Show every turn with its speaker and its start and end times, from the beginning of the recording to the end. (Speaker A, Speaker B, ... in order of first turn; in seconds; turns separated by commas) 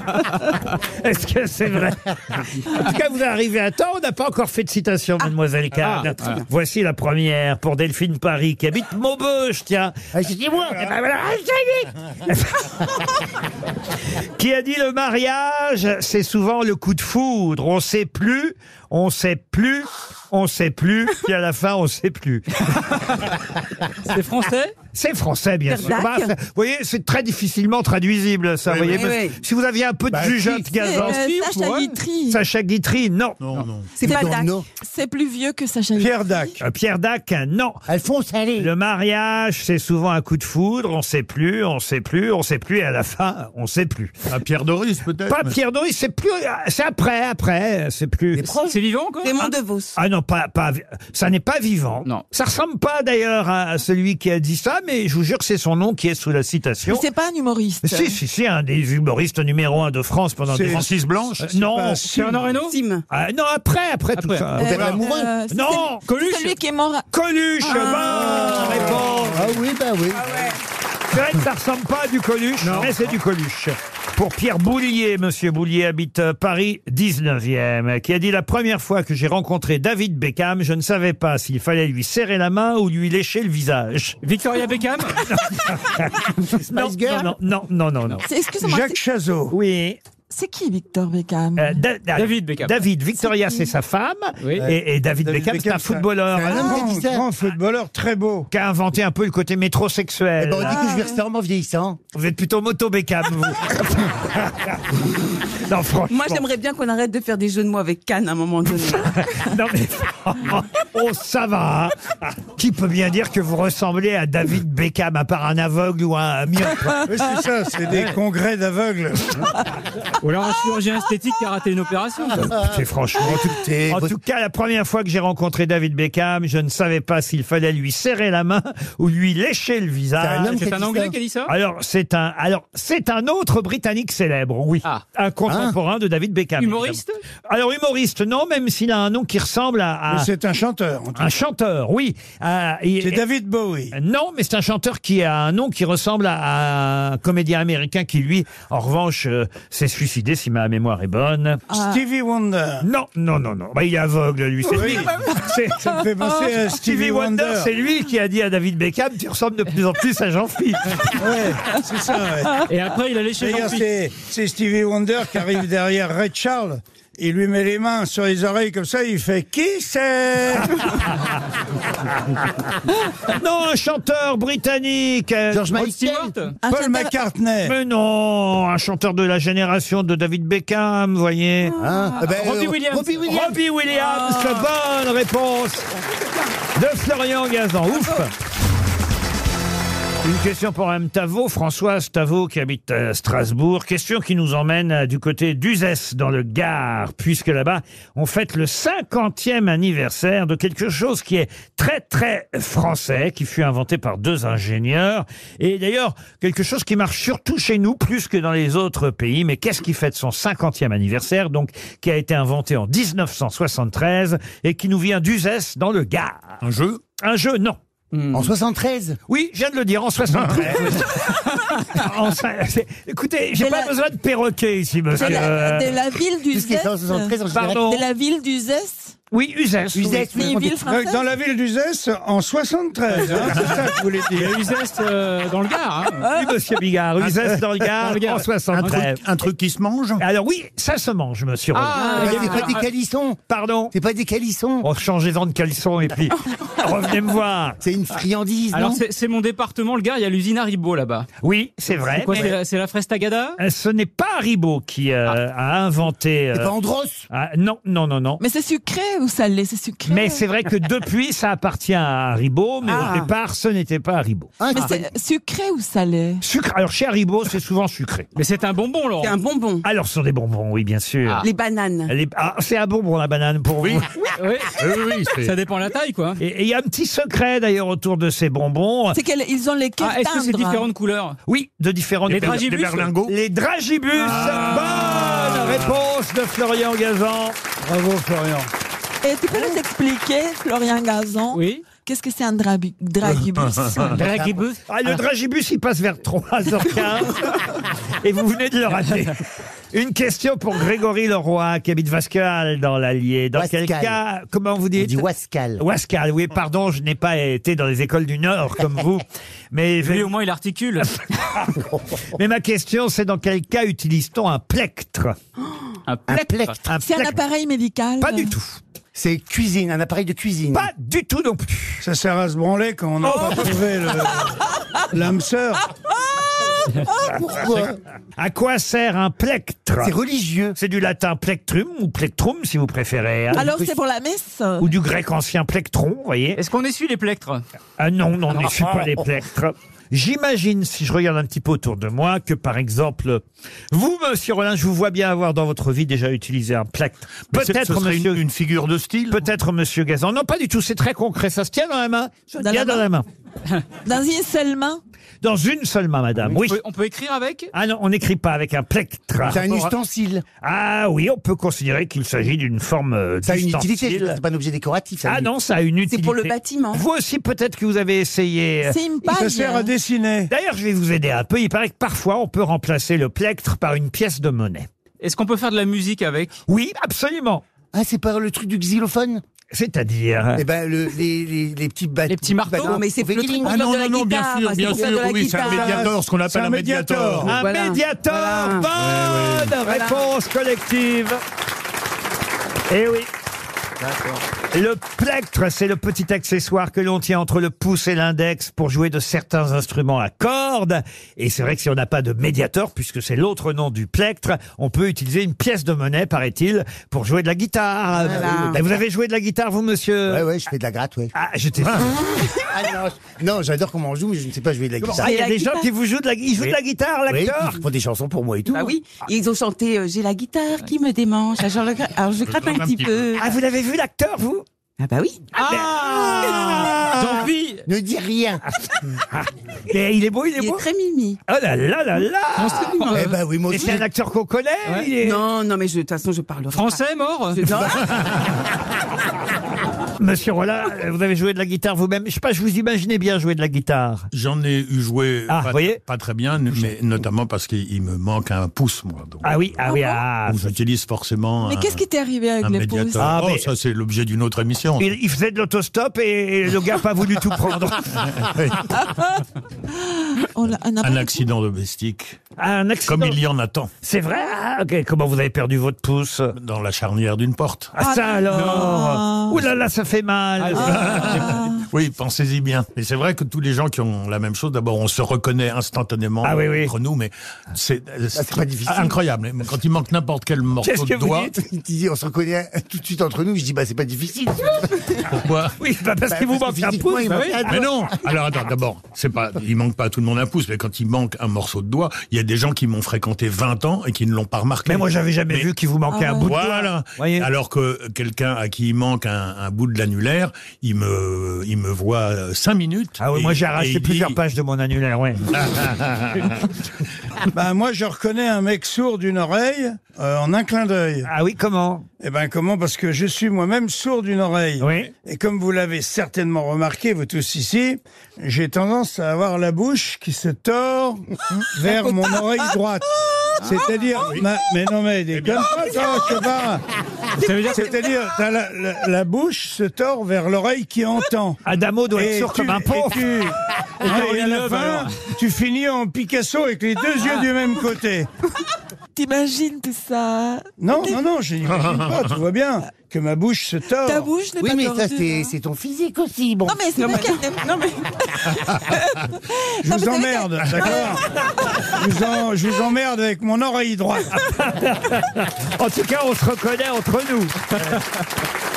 Speaker A: 0.8-9.9, Speaker B: 5.8-6.4, Speaker C: 10.1-11.8, Speaker A: 12.3-12.7, Speaker A: 14.4-22.6, Speaker B: 24.0-24.8, Speaker A: 24.9-33.4, Speaker D: 25.7-26.3, Speaker E: 28.6-29.1, Speaker D: 28.9-29.4, Speaker C: 30.1-31.0, Speaker F: 30.7-32.4, Speaker B: 31.2-31.7, Speaker E: 33.4-34.0, Speaker D: 33.9-34.5, Speaker F: 34.0-36.6, Speaker C: 34.0-34.6, Speaker G: 36.0-36.5, Speaker A: 36.6-37.8, Speaker C: 37.9-38.7, Speaker A: 38.6-44.1, Speaker E: 44.3-45.6, Speaker A: 45.3-48.5, Speaker C: 48.3-48.8, Speaker B: 48.6-49.5, Speaker D: 49.2-50.0, Speaker A: 50.0-57.0, Speaker F: 56.8-58.2, Speaker A: 57.8-60.9, Speaker G: 60.5-60.9, Speaker E: 60.6-61.5, Speaker A: 61.4-62.0, Speaker G: 61.5-62.5, Speaker D: 62.1-63.0, Speaker B: 62.1-62.8, Speaker A: 63.1-64.9, Speaker B: 64.2-64.5, Speaker F: 64.6-67.1, Speaker C: 64.7-65.3, Speaker A: 65.5-66.0, Speaker B: 66.0-66.6, Speaker A: 67.1-69.4, Speaker F: 67.6-68.6, Speaker D: 67.7-68.6, Speaker C: 68.2-70.3, Speaker G: 68.7-69.5, Speaker A: 71.1-84.2, Speaker B: 72.6-73.0, Speaker B: 84.2-85.2, Speaker A: 85.3-88.2, Speaker C: 86.5-87.3, Speaker F: 88.2-89.0, Speaker G: 88.6-89.5, Speaker A: 89.5-90.0, Speaker F: 90.3-91.8, Speaker A: 91.6-96.8, Speaker B: 92.1-92.8, Speaker F: 93.3-93.7, Speaker B: 94.4-94.7, Speaker G: 95.2-98.5, Speaker C: 96.3-97.2, Speaker A: 98.5-100.9, Speaker C: 100.4-102.0, Speaker F: 100.6-101.2, Speaker A: 102.1-105.0, Speaker A: 105.6-106.4, Speaker D: 106.1-109.1, Speaker A: 109.0-117.1, Speaker G: 117.1-119.5, Speaker B: 117.9-118.2, Speaker B: 120.2-122.5, Speaker A: 122.3-130.5, Speaker C: 123.2-124.2, Speaker C: 130.2-131.2, Speaker B: 130.4-131.5, Speaker A: 131.5-140.3, Speaker C: 135.5-135.8, Speaker B: 136.6-137.2, Speaker G: 140.1-141.3, Speaker A: 141.2-143.2, Speaker G: 143.0-143.9, Speaker A: 143.9-151.6, Speaker F: 151.7-152.0, Speaker G: 151.7-152.8, Speaker A: 152.8-155.5, Speaker G: 154.7-157.7, Speaker F: 154.8-156.0, Speaker A: 156.3-161.2, Speaker G: 161.1-162.7, Speaker B: 162.7-163.9, Speaker G: 163.4-171.0, Speaker A: 173.3-175.8, Speaker C: 175.5-176.3, Speaker B: 175.7-176.6, Speaker F: 176.6-177.2, Speaker G: 176.7-177.7, Speaker A: 177.6-181.8, Speaker C: 181.8-183.6, Speaker B: 182.2-183.3, Speaker A: 183.2-185.9, Speaker F: 183.9-184.6, Speaker A: 186.7-188.3, Speaker A: 190.2-216.6, Speaker E: 216.6-217.0, Speaker A: 217.2-217.8, Speaker B: 218.1-218.5, Speaker C: 218.3-219.2, Speaker A: 219.3-221.3, Speaker A: 221.9-226.0, Speaker F: 223.6-223.9, Speaker F: 225.1-229.2, Speaker C: 226.5-227.8, Speaker A: 227.5-228.1, Speaker A: 229.3-230.5, Speaker C: 229.9-230.8, Speaker F: 230.2-231.2, Speaker G: 230.8-234.6, Speaker B: 233.2-233.7, Speaker B: 234.3-236.3, Speaker A: 236.2-239.2, Speaker B: 237.9-238.5, Speaker E: 238.7-240.2, Speaker A: 240.2-242.6, Speaker B: 241.7-242.9, Speaker C: 242.1-243.4, Speaker A: 243.5-243.9, Speaker C: 243.9-244.9, Speaker A: 244.8-247.8, Speaker C: 247.8-249.0, Speaker B: 248.7-251.3, Speaker A: 251.4-252.6, Speaker B: 252.0-253.6, Speaker A: 253.6-256.7, Speaker C: 256.5-257.2, Speaker A: 257.3-258.4, Speaker F: 258.4-260.4, Speaker A: 260.1-264.5, Speaker D: 262.8-263.3, Speaker C: 264.6-265.0, Speaker F: 264.7-266.4, Speaker A: 266.4-268.3, Speaker B: 268.3-269.4, Speaker D: 269.2-269.8, Speaker A: 269.8-271.4, Speaker D: 271.4-272.1, Speaker A: 272.1-274.1, Speaker E: 273.8-274.1, Speaker B: 274.4-274.8, Speaker E: 274.7-275.6, Speaker B: 275.4-276.4, Speaker A: 276.4-279.2, Speaker F: 279.1-280.9, Speaker B: 280.0-281.4, Speaker A: 281.4-287.6, Speaker B: 282.3-283.1, Speaker E: 282.3-283.3, Speaker E: 284.2-285.8, Speaker B: 284.3-285.6, Speaker G: 287.8-288.7, Speaker F: 289.2-294.2, Speaker B: 291.5-291.9, Speaker E: 293.4-294.1, Speaker B: 294.1-294.8, Speaker C: 294.1-294.6, Speaker A: 294.9-297.6, Speaker A: 298.2-299.4, Speaker A: 299.9-305.2, Speaker C: 303.5-304.2, Speaker C: 304.9-305.8, Speaker A: 305.8-310.3, Speaker B: 310.0-311.1, Speaker A: 311.0-311.8, Speaker A: 312.3-315.4, Speaker B: 316.1-316.8, Speaker C: 316.3-316.8, Speaker A: 316.9-317.4, Speaker F: 317.0-318.5, Speaker A: 318.2-318.8, Speaker C: 319.1-320.9, Speaker A: 320.7-322.0, Speaker G: 322.0-324.6, Speaker G: 325.1-325.9, Speaker C: 327.2-328.0, Speaker A: 328.4-330.1, Speaker C: 330.0-330.8, Speaker A: 330.8-333.7, Speaker F: 333.5-334.9, Speaker C: 333.6-333.9, Speaker A: 334.8-336.6, Speaker B: 336.6-337.6, Speaker A: 338.0-348.4, Speaker E: 347.5-349.4, Speaker A: 349.3-353.2, Speaker F: 352.6-353.1, Speaker F: 354.0-355.0, Speaker A: 355.4-356.8, Speaker B: 356.5-357.7, Speaker A: 357.7-359.9, Speaker C: 359.4-360.4, Speaker A: 360.6-364.4, Speaker C: 363.4-365.5, Speaker A: 365.2-369.0, Speaker D: 366.1-367.1, Speaker F: 368.8-369.9, Speaker G: 369.2-370.5, Speaker A: 370.5-374.9, Speaker B: 375.2-376.5, Speaker A: 376.7-377.6, Speaker C: 377.9-379.4, Speaker A: 379.7-380.6, Speaker C: 380.6-383.8, Speaker B: 382.3-383.0, Speaker D: 382.8-386.1, Speaker E: 383.6-387.6, Speaker G: 385.0-387.6, Speaker A: 387.4-391.4, Speaker D: 387.5-388.9, Speaker E: 389.0-389.7, Speaker D: 389.8-390.2, Speaker A: 392.9-393.3, Speaker B: 394.0-394.4, Speaker A: 394.7-410.5, Speaker D: 408.2-408.8, Speaker C: 408.2-408.9, Speaker C: 410.3-411.3, Speaker A: 411.3-412.2, Speaker C: 412.0-415.3, Speaker A: 415.0-417.8, Speaker D: 415.2-415.8, Speaker C: 417.3-418.9, Speaker D: 418.7-423.4, Speaker E: 422.4-423.4, Speaker A: 423.4-424.6, Speaker D: 425.0-425.5, Speaker A: 425.6-427.5, Speaker B: 425.6-427.8, Speaker C: 427.9-428.6, Speaker A: 429.3-430.8, Speaker D: 430.6-431.4, Speaker A: 431.5-433.1, Speaker B: 432.6-433.4, Speaker C: 433.1-434.0, Speaker A: 433.7-435.4, Speaker D: 435.2-438.0, Speaker B: 436.7-437.8, Speaker A: 440.2-444.3, Speaker E: 444.3-449.9, Speaker A: 445.5-446.0, Speaker A: 449.4-450.8, Speaker F: 449.9-450.2, Speaker E: 450.4-452.1, Speaker F: 451.6-453.4, Speaker E: 452.6-455.1, Speaker A: 453.2-453.7, Speaker A: 455.0-458.3, Speaker E: 458.3-458.9, Speaker F: 459.9-461.5, Speaker E: 461.0-462.4, Speaker A: 462.6-463.4, Speaker E: 463.1-463.9, Speaker A: 464.0-466.5, Speaker E: 466.6-467.9, Speaker A: 467.9-471.4, Speaker F: 468.0-469.6, Speaker B: 468.5-469.0, Speaker F: 470.7-471.9, Speaker E: 470.8-481.5, Speaker A: 476.4-476.9, Speaker C: 478.3-479.2, Speaker A: 480.8-481.6, Speaker C: 481.6-485.3, Speaker E: 485.3-485.8, Speaker A: 485.8-487.8, Speaker C: 486.3-488.1, Speaker B: 487.2-487.6, Speaker E: 487.6-495.7, Speaker A: 494.9-497.5, Speaker F: 496.1-496.6, Speaker E: 496.4-504.4, Speaker A: 503.2-505.5, Speaker E: 505.5-506.6, Speaker G: 507.5-511.3, Speaker A: 511.2-512.1, Speaker G: 512.2-523.1, Speaker A: 514.8-515.1, Speaker G: 523.6-526.8, Speaker B: 527.4-528.0, Speaker G: 527.6-531.6, Speaker A: 531.6-533.5, Speaker G: 532.1-538.3, Speaker B: 534.0-535.3, Speaker F: 539.1-541.2, Speaker G: 540.8-544.3, Speaker E: 541.7-542.3, Speaker F: 544.0-545.5, Speaker C: 544.6-546.8, Speaker F: 546.7-551.2, Speaker D: 547.0-548.0, Speaker G: 549.8-551.2, Speaker G: 551.9-554.3, Speaker A: 554.4-557.7